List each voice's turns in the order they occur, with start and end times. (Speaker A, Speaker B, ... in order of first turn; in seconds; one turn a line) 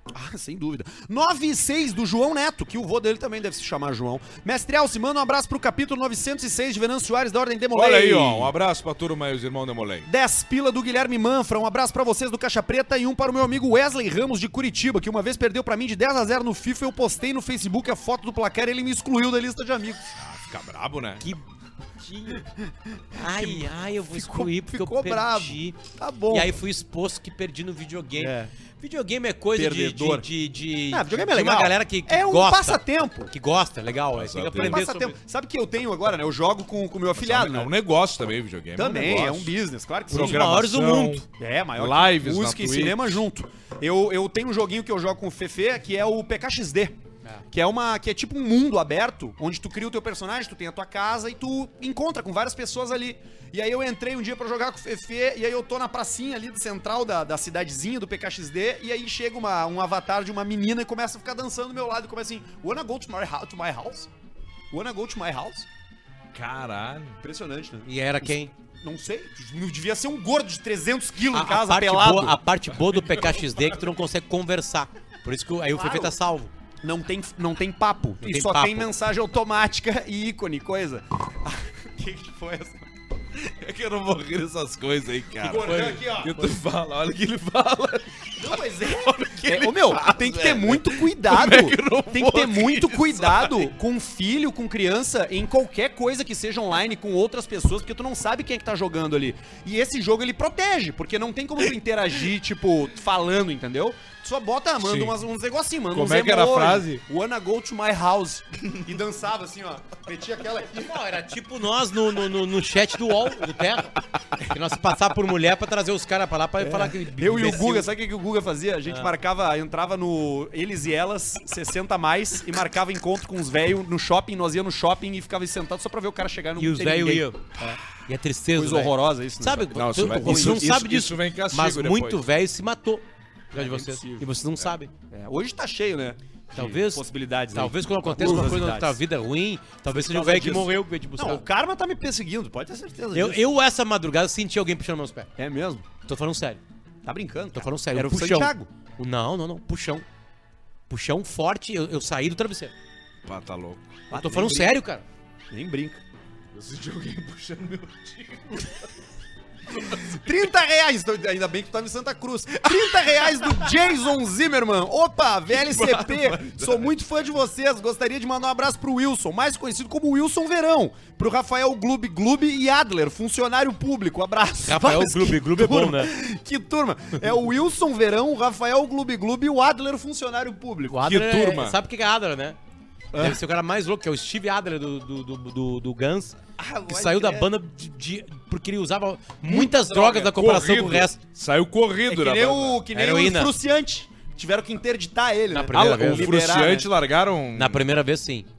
Speaker A: 0.1-8.5
Speaker B: 7.7-10.1
Speaker A: 10.1-20.1
Speaker B: 20.2-21.2
Speaker C: 22.0-22.4
Speaker C: 23.1-25.8
Speaker A: 23.1-26.6
Speaker C: 26.3-35.1
Speaker A: 28.2-28.5
Speaker A: 29.6-30.2
Speaker A: 30.9-33.3
Speaker B: 34.1-34.8
Speaker A: 34.6-37.7
Speaker B: 37.1-39.5
Speaker A: 38.8-40.5
Speaker C: 40.1-41.2
Speaker B: 40.1-41.2
Speaker A: 41.4-47.0
Speaker B: 41.8-43.3
Speaker A: 47.5-64.1
Speaker A: 64.7-65.7
Speaker B: 66.3-67.2
Speaker A: 67.2-72.3
Speaker C: 67.8-68.5
Speaker C: 71.3-76.5
Speaker B: 72.9-73.6
Speaker A: 75.7-76.2
Speaker A: 76.8-82.9
Speaker C: 78.2-78.9
Speaker B: 83.3-93.7
Speaker A: 85.4-86.5
Speaker C: 85.6-86.2
Speaker A: 88.4-111.0
Speaker B: 104.8-105.2
Speaker B: 105.9-107.0
Speaker C: 110.7-117.9
Speaker A: 116.6-127.8
Speaker C: 118.8-119.1
Speaker C: 126.6-127.5
Speaker C: 128.1-134.9
Speaker A: 128.5-130.7
Speaker B: 129.7-132.2
Speaker A: 133.5-134.3
Speaker A: 135.1-139.0
Speaker C: 136.5-141.4
Speaker A: 139.9-143.4
Speaker C: 143.1-145.3
Speaker A: 145.4-145.8
Speaker C: 146.0-146.6
Speaker A: 147.0-148.7
Speaker C: 147.5-150.1
Speaker C: 150.9-152.7
Speaker B: 153.2-153.9
Speaker A: 154.1-154.8
Speaker C: 154.1-155.0
Speaker A: 155.5-156.0
Speaker B: 156.5-158.8
Speaker A: 159.7-181.0
Speaker B: 163.0-163.5
Speaker B: 165.5-166.9
Speaker C: 174.6-176.1
Speaker C: 180.9-182.6
Speaker B: 180.9-181.8
Speaker A: 183.1-183.4
Speaker C: 183.2-191.2
Speaker A: 186.6-187.5
Speaker A: 189.4-190.2
Speaker B: 190.1-192.8
Speaker A: 192.1-196.9
Speaker C: 192.9-193.5
Speaker C: 195.5-196.3
Speaker B: 195.7-197.8
Speaker C: 197.5-198.5